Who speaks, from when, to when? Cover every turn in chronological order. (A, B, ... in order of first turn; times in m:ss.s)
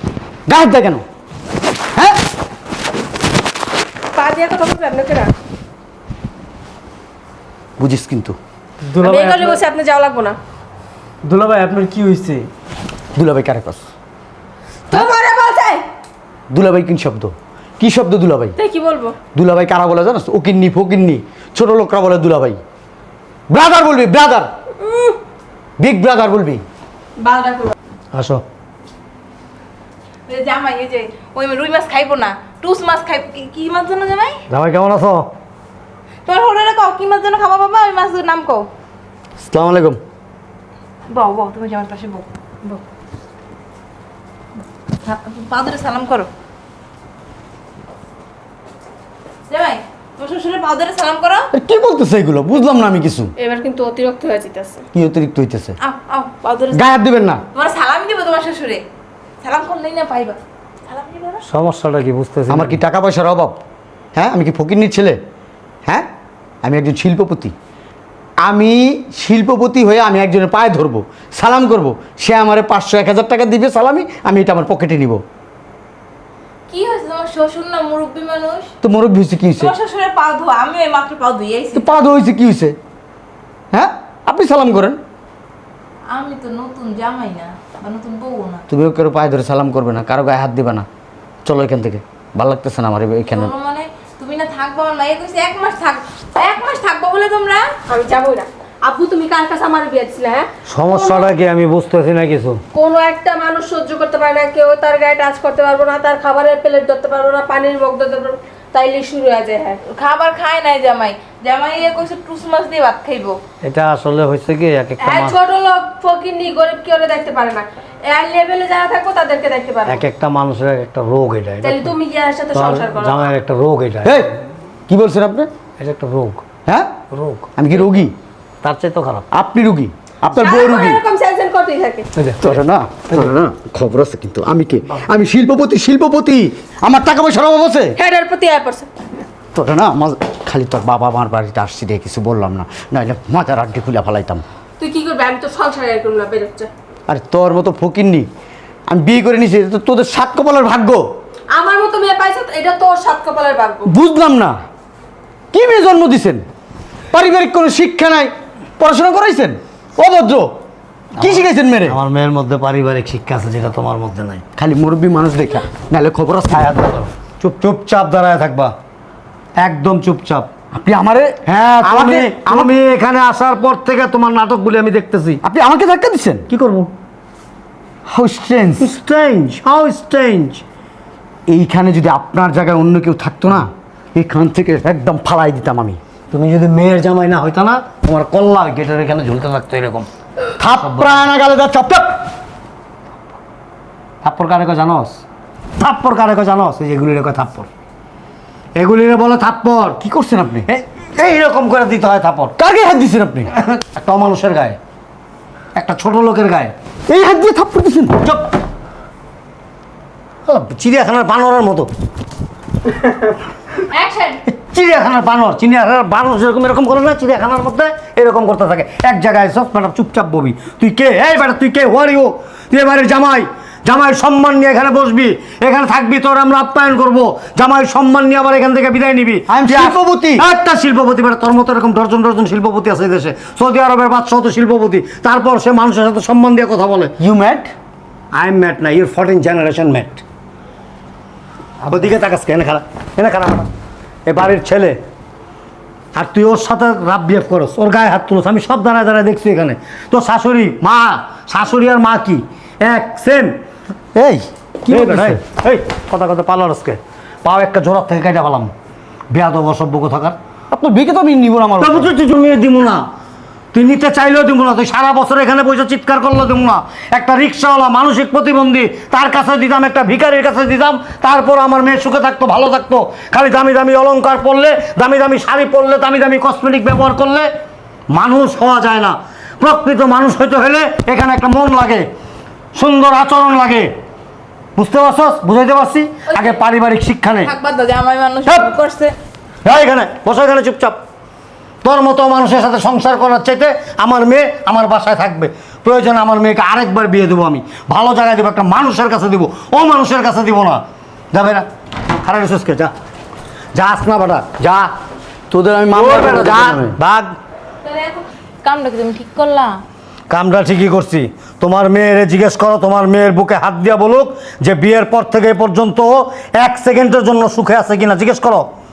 0:00.5-0:01.0 A
0:04.1-0:05.3 B
0:07.8-0:08.4 A
0:08.8-0:09.6 C
0:09.0-0:10.4 B
0:11.2-0:12.5 C
0:13.2-0:13.8 A
0:14.9-0:15.8 B
0:16.5-0:18.6 A
0:18.6-0:19.2 B
0:19.4-0:22.6 A
0:23.5-0:24.5 A
0:24.8-0:25.2 B
0:25.8-0:26.6 A
0:27.2-0:27.8 B
0:28.1-0:28.4 D
0:30.3-0:34.4 E
0:34.5-0:35.2 D
0:36.2-0:38.7 E
0:39.4-0:40.0 A
0:41.1-0:42.8 E
0:45.0-0:46.3 E
0:49.5-0:51.5 E
0:51.5-0:53.3 A
0:53.4-0:54.8 B
0:54.9-0:55.8 A
0:55.8-0:56.6 E
0:56.7-0:57.4 A
0:57.5-0:58.8 E
0:59.4-1:01.4 E
1:01.5-1:02.8 D
1:02.5-1:03.6 A
1:04.2-1:05.2 A
1:06.6-1:07.5 A
1:08.4-1:15.2 A
1:16.7-1:18.7 E
1:18.8-1:19.7 A
1:19.6-1:21.9 E
1:21.8-1:22.8 A
1:23.7-1:25.0 A
1:26.1-1:28.6 E
1:28.7-1:30.9 A
1:31.4-1:33.5 A
1:33.3-1:37.7 E
1:37.9-1:40.5 B
1:40.7-1:42.6 D
1:42.7-1:49.8 B
1:49.9-1:53.4 E
1:53.6-1:55.4 D
1:55.0-2:00.0 B
1:59.9-2:01.9 D
2:01.6-2:03.3 B
2:02.5-2:04.2 D
2:04.0-2:04.3 A
2:04.9-2:05.5 A
2:05.8-2:06.4 D
2:06.7-2:06.9 A
2:07.1-2:07.5 D
2:07.6-2:08.1 A
2:08.6-2:09.2 D
2:09.3-2:11.0 A
2:10.4-2:12.1 B
2:12.2-2:12.6 D
2:12.4-2:18.0 A
2:18.0-2:18.9 B
2:19.5-2:24.4 A
2:24.8-2:26.7 B
2:27.1-2:28.3 A
2:28.9-2:31.1 A
2:31.5-2:33.9 B
2:33.8-2:34.6 A
2:35.5-2:36.4 A
2:37.1-2:40.5 A
2:41.2-2:44.4 D
2:41.2-2:42.0 A
2:44.6-2:46.9 A
2:46.6-2:48.7 D
2:49.6-2:50.5 D
2:50.7-2:52.8 A
2:51.5-2:55.4 D
2:55.4-2:56.5 A
2:56.5-2:56.9 D
2:58.1-2:58.9 A
2:58.8-3:00.6 D
3:01.5-3:06.0 A
3:06.3-3:10.1 D
3:10.6-3:12.2 A
3:10.7-3:11.3 D
3:14.2-3:15.2 D
3:15.8-3:17.7 D
3:18.8-3:20.0 D
3:20.0-3:20.7 A
3:20.7-3:22.6 D
3:22.6-3:23.5 A
3:23.6-3:24.8 D
3:25.8-3:26.7 D
3:27.1-3:28.2 A
3:28.2-3:28.5 D
3:30.5-3:31.9 D
3:33.9-3:34.4 E
3:34.5-3:57.1 D
3:49.5-3:50.5 A
3:57.2-3:57.7 A
3:58.3-4:00.2 D
4:01.8-4:03.7 D
4:04.2-4:05.0 D
4:06.1-4:13.6 D
4:14.2-4:15.4 A
4:14.9-4:18.7 D
4:19.3-4:20.4 D
4:20.7-4:22.1 A
4:21.8-4:23.0 D
4:23.7-4:37.5 D
4:38.1-4:42.0 D
4:42.7-4:43.9 D
4:44.8-4:47.5 D
4:47.4-4:49.1 E
4:49.6-4:51.0 D
4:51.8-5:02.9 D
5:03.7-5:04.6 D
5:04.6-5:04.9 A
5:05.5-5:07.0 A
5:05.9-5:07.4 D
5:07.9-5:09.8 E
5:10.3-5:18.7 D